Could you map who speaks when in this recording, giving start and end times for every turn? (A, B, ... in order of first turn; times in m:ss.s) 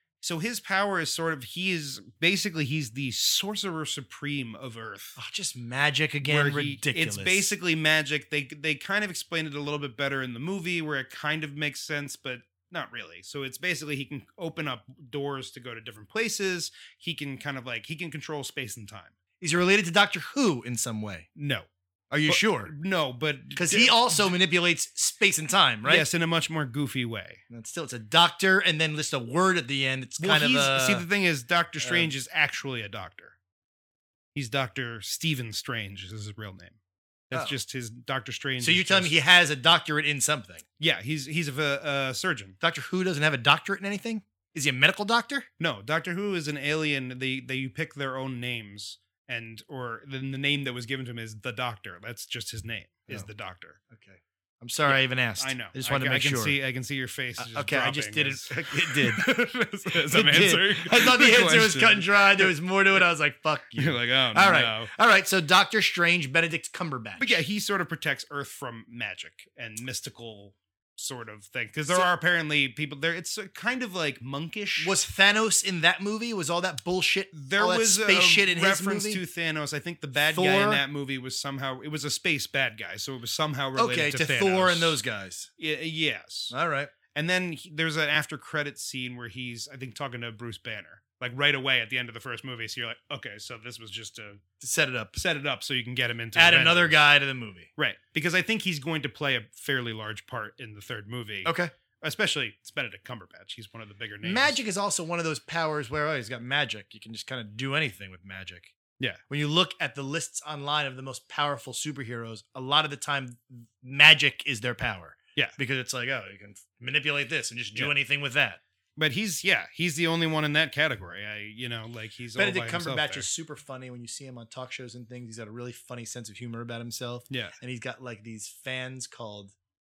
0:00.2-0:05.2 A
0:05.2-0:07.5 B
0:06.2-0:19.1 A
0:19.4-0:21.3 B
0:21.4-0:21.7 A
0:22.1-0:22.7 B
0:22.3-0:24.3 A
0:23.6-0:26.1 B
0:25.8-0:27.4 A
0:27.5-0:31.0 B
0:30.2-0:33.4 A
0:31.8-0:32.1 B
0:34.3-0:36.8 A
0:37.3-0:39.2 A
0:37.3-0:37.6 B
0:38.6-0:40.6 B
0:40.8-0:42.6 A
0:42.6-0:45.5 B
0:45.6-0:53.8 A
0:53.9-0:56.6 B
0:54.8-1:03.0 A
0:57.4-0:59.5 B
1:00.0-1:07.4 B
1:03.8-1:04.9 A
1:07.2-1:15.0 A
1:14.8-1:19.2 B
1:17.3-1:25.0 A
1:20.3-1:20.8 B
1:23.8-1:25.5 B
1:25.6-1:26.6 A
1:26.5-1:26.9 B
1:27.1-1:34.4 A
1:34.6-1:35.2 B
1:35.2-1:37.0 A
1:36.3-1:37.7 B
1:37.8-1:44.6 A
1:41.4-1:41.7 B
1:44.2-1:48.7 B
1:49.3-1:58.6 B
1:59.0-2:03.3 A
2:02.4-2:09.5 B
2:07.3-2:07.5 A